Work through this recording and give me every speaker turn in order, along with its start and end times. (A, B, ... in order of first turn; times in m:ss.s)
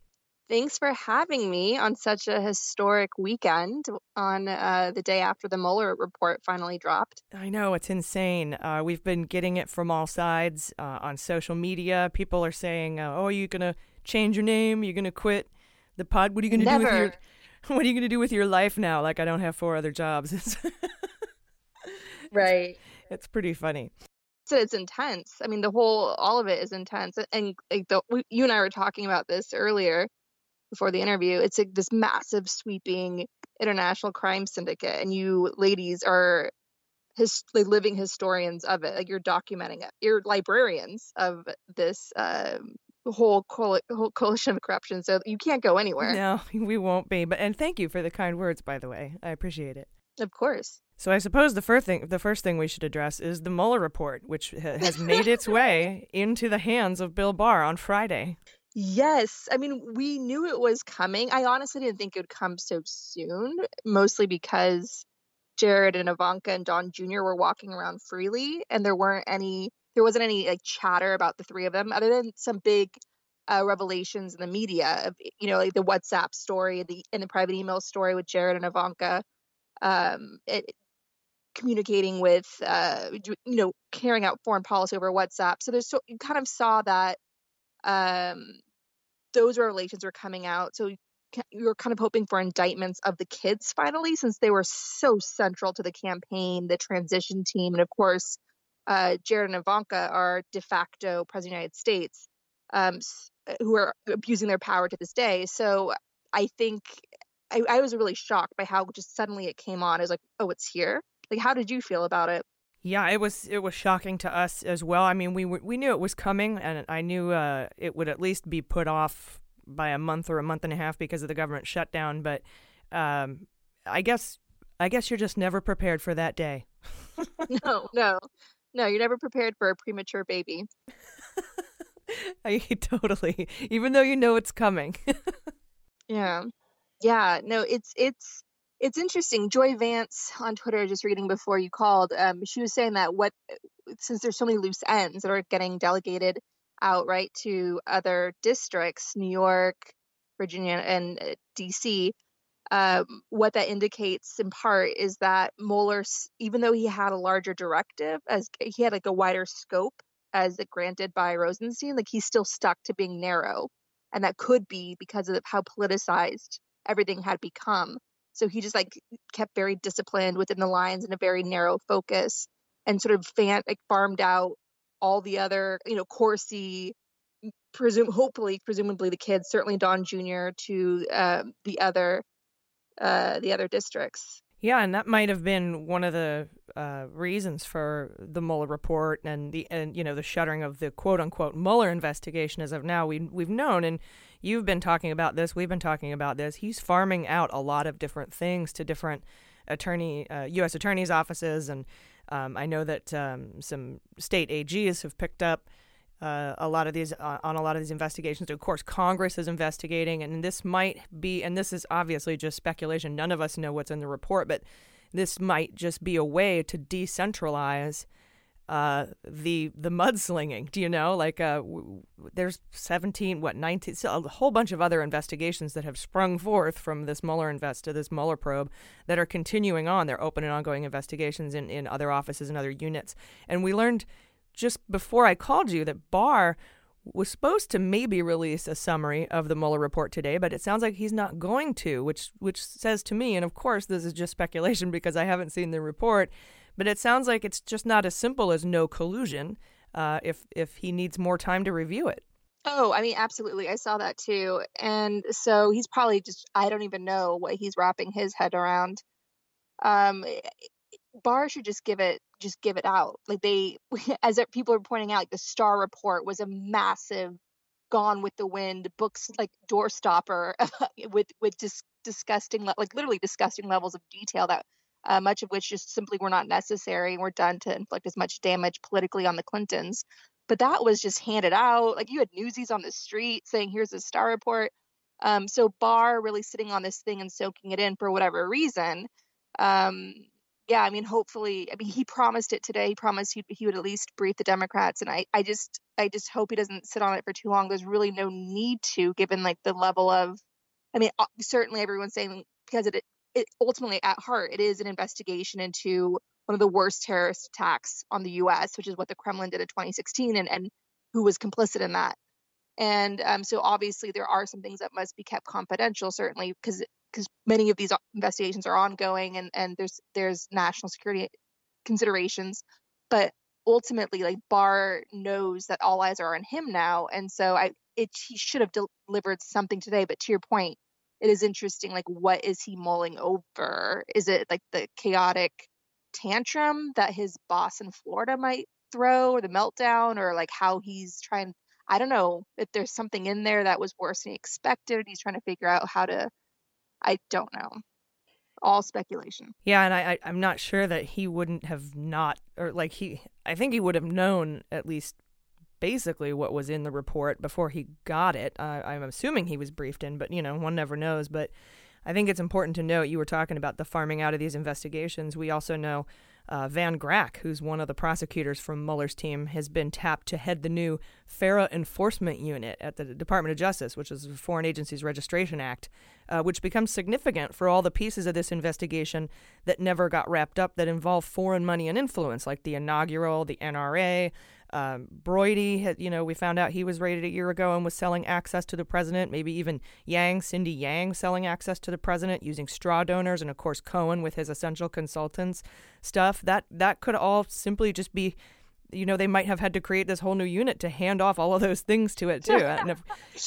0:00.5-0:07.2 A
0:07.3-0:21.1 B
0:16.5-0:17.2 A
0:22.3-0:22.8 A
0:22.3-0:23.9 B
0:24.5-0:30.1 A
0:30.7-0:36.5 A
0:37.2-0:46.2 A
0:46.0-0:49.9 B
0:50.2-0:50.8 A
0:51.0-0:58.4 B
0:54.8-0:55.8 A
0:58.8-1:05.0 A
1:05.6-1:19.2 A
1:19.8-1:20.7 A
1:21.6-1:27.2 A
1:27.8-1:28.6 A
1:29.3-1:52.4 A
1:52.8-2:07.1 B
2:07.6-2:10.7 A
2:12.1-2:15.3 B
2:16.1-2:16.5 A
2:17.0-2:23.4 A
2:23.9-2:32.1 A
2:32.7-2:57.0 A
2:57.7-3:02.2 A
3:03.0-3:04.4 A
3:04.6-3:38.1 B
3:38.7-4:12.2 B
4:12.7-4:19.0 A
4:19.8-4:20.4 A
4:21.2-4:27.4 A
4:27.9-5:00.4 A
5:00.9-5:12.2 A
5:12.8-5:21.3 A
5:21.8-5:46.3 A
5:47.0-5:47.8 A
5:48.6-5:49.5 A
5:49.6-5:55.2 B
5:55.8-6:38.4 B
6:38.9-6:43.1 B